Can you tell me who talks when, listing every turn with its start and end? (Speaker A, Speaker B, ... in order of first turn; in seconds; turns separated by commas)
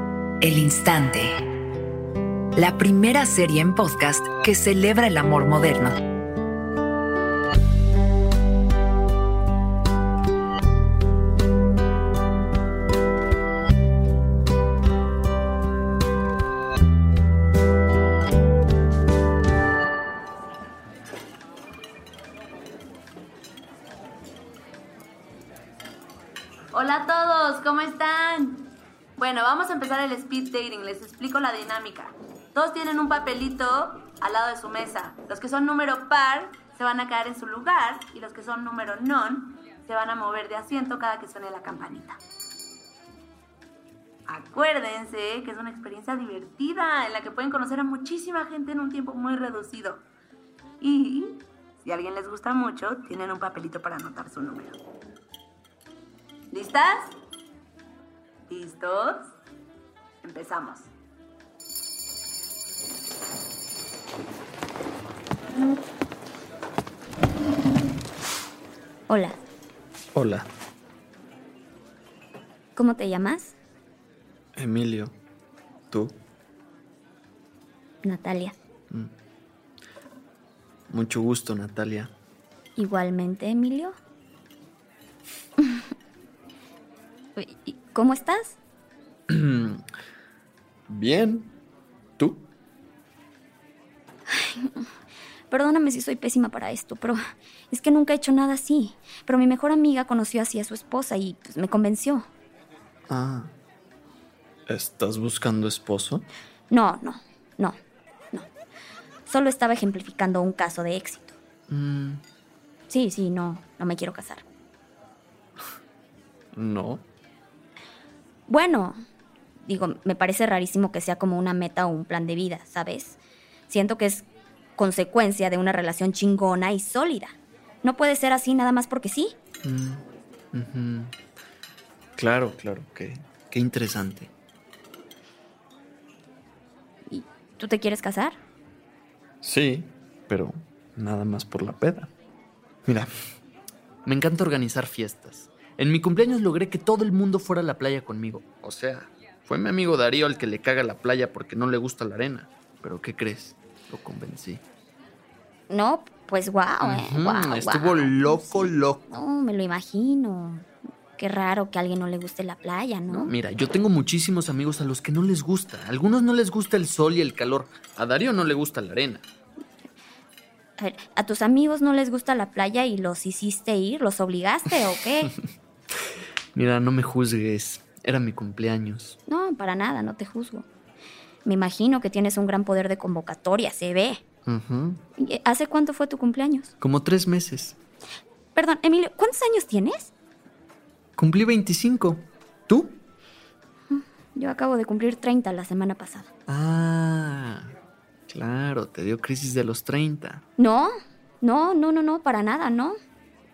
Speaker A: 0.4-1.4, Speaker A: 2.6-6.0, Speaker B: 26.7-42.2, Speaker B: 44.3-50.1, Speaker B: 50.8-54.8, Speaker B: 56.5-57.2, Speaker B: 58.5-59.3, Speaker B: 60.2-60.9, Speaker C: 69.1-69.4, Speaker D: 70.2-70.5, Speaker C: 72.8-73.5, Speaker D: 74.6-75.2, Speaker D: 75.9-76.2, Speaker C: 78.0-78.5, Speaker D: 80.9-82.1, Speaker C: 82.8-84.0, Speaker C: 87.4-88.6, Speaker D: 89.3-89.8, Speaker D: 90.9-91.5, Speaker D: 92.2-92.5, Speaker C: 94.3-94.8, Speaker C: 95.5-97.2, Speaker C: 97.7-102.3, Speaker D: 103.1-103.5, Speaker D: 104.7-106.3, Speaker C: 106.7-107.8, Speaker C: 109.3-111.4, Speaker D: 111.7-112.2, Speaker C: 112.9-114.4, Speaker D: 116.5-117.0, Speaker C: 118.5-119.0, Speaker C: 119.6-129.3, Speaker D: 129.6-131.1, Speaker D: 132.2-134.3, Speaker C: 137.1-138.4, Speaker D: 139.4-142.1, Speaker D: 144.1-154.6, Speaker C: 155.7-160.7, Speaker D: 156.8-159.2, Speaker C: 161.2-163.3, Speaker D: 163.1-169.3, Speaker C: 170.8-175.3, Speaker D: 176.6-179.2, Speaker C: 179.3-180.7, Speaker C: 181.4-184.2, Speaker D: 184.5-185.0, Speaker C: 185.2-186.7, Speaker D: 186.8-187.8, Speaker C: 188.6-190.1, Speaker D: 191.2-193.0, Speaker C: 193.9-196.3, Speaker D: 196.5-197.7, Speaker D: 198.3-200.4, Speaker C: 200.6-203.0